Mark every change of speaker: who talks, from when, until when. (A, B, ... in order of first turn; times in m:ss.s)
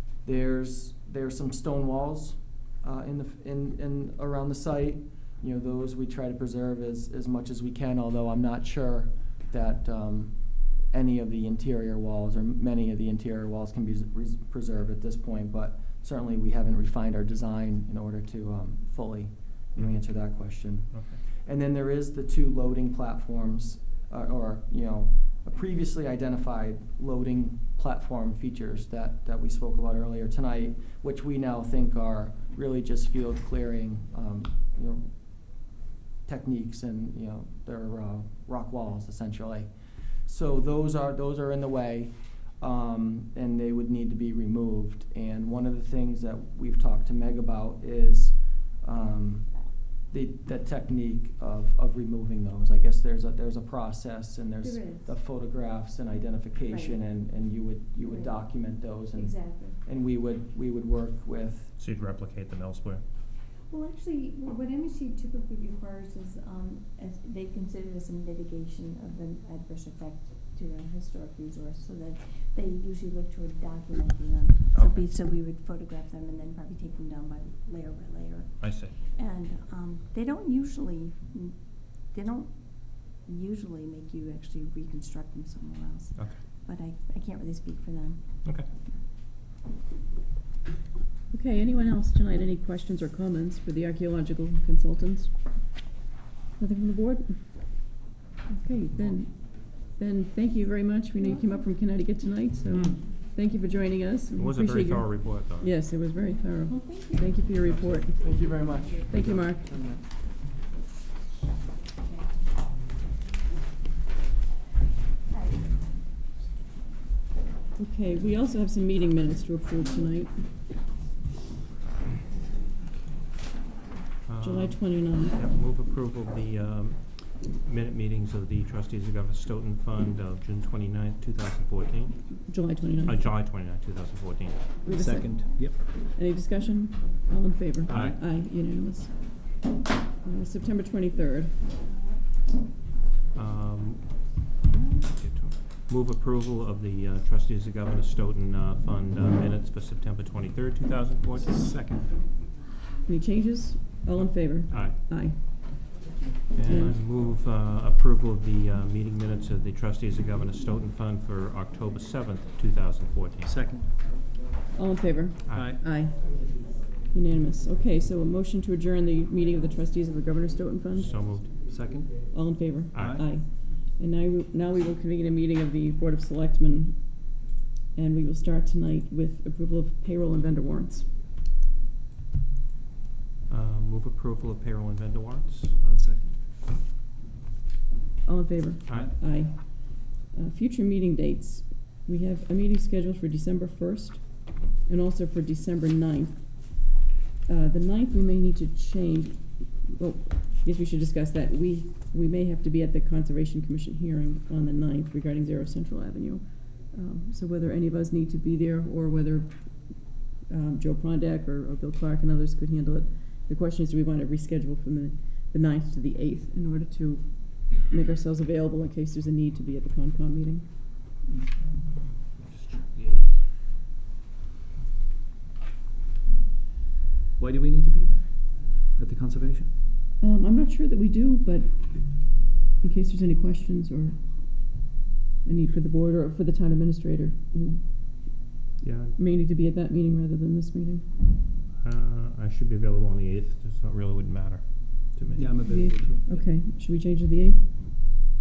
0:00.2-0:10.4 A
0:10.9-0:35.1 A
0:19.8-0:20.0 B
0:20.9-0:21.2 B
0:36.3-0:39.7 A
0:40.2-0:49.5 A
0:50.1-1:01.7 A
0:54.6-0:55.1 C
0:56.7-0:57.0 C
0:58.0-0:58.4 C
0:59.2-0:59.8 C
1:01.8-1:03.0 B
1:03.7-1:28.2 C
1:14.7-1:15.1 B
1:18.6-1:19.0 B
1:26.2-1:26.4 B
1:31.3-1:35.3 D
1:36.6-1:38.0 D
1:38.5-1:48.4 D
1:44.4-1:45.8 B
1:46.8-1:47.2 C
1:48.0-1:50.0 A
1:49.1-1:49.7 D
1:57.8-2:00.4 D
2:04.3-2:12.2 B
2:04.4-2:05.4 D
2:12.5-2:13.3 D
2:13.0-2:14.7 B
2:14.8-2:19.7 D
2:14.9-2:15.8 E
2:17.9-2:18.2 B
2:20.2-2:21.7 D
2:23.3-2:24.4 B
2:24.6-2:25.1 C
2:25.1-2:31.7 B
2:31.4-2:32.2 E
2:33.1-2:36.0 D
2:34.2-2:35.0 B
2:36.5-2:43.6 B
2:36.6-2:37.0 D
2:43.4-2:44.0 E
2:44.7-2:46.2 D
2:45.5-2:45.8 B
2:45.5-2:45.8 E
2:47.1-2:51.1 D
2:51.0-2:51.7 B
2:51.7-2:52.3 E
2:52.3-2:57.4 D
2:52.9-2:53.3 B
2:52.9-2:53.3 E
2:57.9-3:01.1 D
3:03.5-3:06.0 B
3:05.9-3:06.4 E
3:08.2-3:16.9 D
3:08.9-3:09.2 B
3:17.5-3:40.7 D
3:41.6-3:43.4 B
3:47.4-3:49.7 E
3:50.2-3:54.9 D
3:55.4-3:57.9 D
3:58.8-3:59.2 B
3:59.2-4:01.1 D
4:01.8-4:05.9 B
4:05.4-4:06.5 E
4:05.7-4:08.3 D